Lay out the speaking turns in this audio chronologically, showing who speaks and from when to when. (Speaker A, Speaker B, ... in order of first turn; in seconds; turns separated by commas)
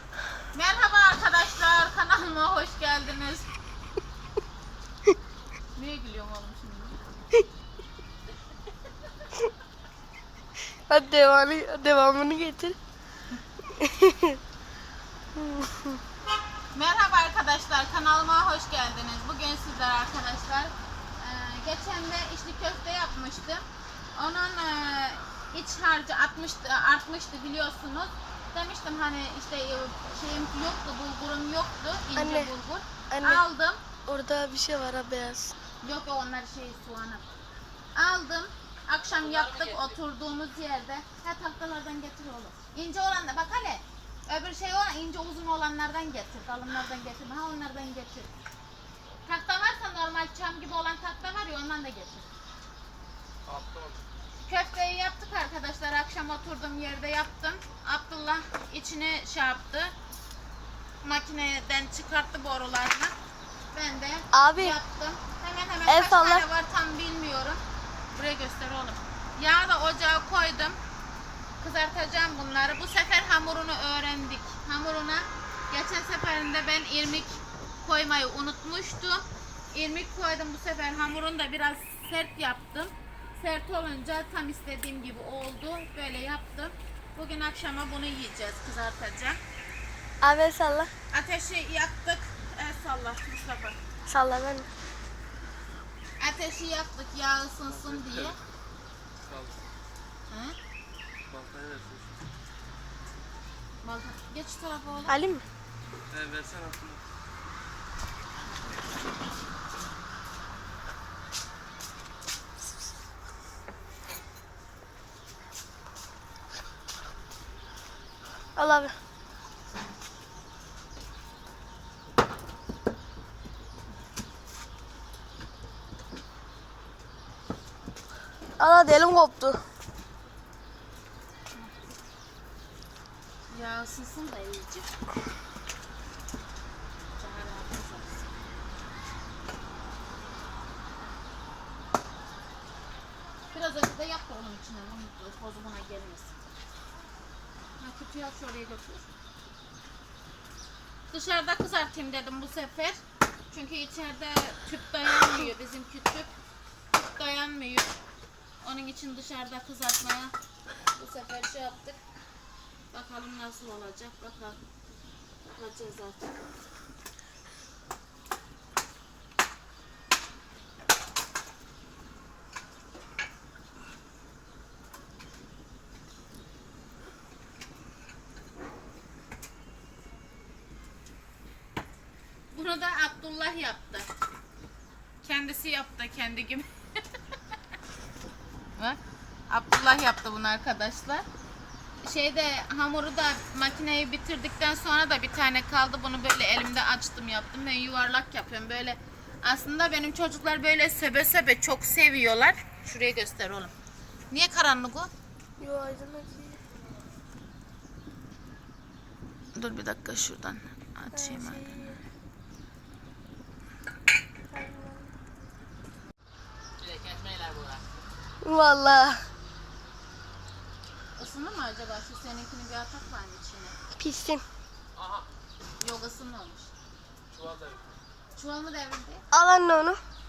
Speaker A: 0.5-3.5, Speaker A: 5.7-7.0, Speaker B: 10.9-12.8, Speaker B: 13.6-14.4, Speaker B: 15.3-16.0, Speaker A: 16.7-23.6, Speaker A: 24.1-33.8, Speaker B: 32.1-32.5, Speaker B: 33.1-33.4, Speaker B: 34.1-35.5, Speaker A: 35.8-37.3, Speaker A: 37.9-48.3, Speaker C: 39.1-40.0, Speaker A: 49.2-52.2, Speaker C: 53.5-54.0, Speaker A: 54.5-59.9, Speaker A: 61.0-63.1, Speaker A: 63.7-67.6, Speaker B: 64.3-64.8, Speaker B: 65.9-66.5, Speaker A: 68.1-70.8, Speaker A: 71.6-89.4, Speaker B: 90.2-90.9, Speaker A: 91.1-93.8, Speaker B: 94.1-94.7, Speaker A: 96.2-98.4, Speaker C: 97.7-98.3, Speaker C: 99.3-99.6, Speaker A: 100.3-100.5, Speaker C: 101.3-102.1, Speaker A: 103.8-105.2, Speaker B: 105.1-105.4, Speaker C: 106.1-107.0, Speaker B: 118.5-118.9, Speaker B: 128.6-129.6, Speaker A: 133.5-134.9, Speaker A: 137.1-138.3, Speaker A: 143.5-146.3, Speaker A: 147.8-149.1, Speaker A: 151.1-153.0, Speaker A: 153.5-156.3, Speaker A: 157.0-157.9, Speaker A: 158.6-160.3, Speaker A: 160.9-162.0, Speaker A: 162.9-164.6, Speaker A: 165.6-166.3, Speaker A: 182.5-184.1, Speaker A: 185.2-187.0, Speaker A: 189.5-191.2, Speaker A: 192.0-203.7, Speaker A: 204.3-205.1, Speaker B: 205.6-206.6, Speaker A: 209.5-211.9, Speaker B: 211.1-212.0, Speaker B: 214.5-215.1, Speaker C: 216.8-217.8, Speaker B: 218.4-219.2, Speaker A: 221.2-223.8, Speaker B: 223.9-224.4, Speaker C: 224.9-225.3, Speaker A: 225.8-226.7, Speaker C: 227.3-227.9, Speaker A: 228.3-229.2, Speaker B: 229.3-230.0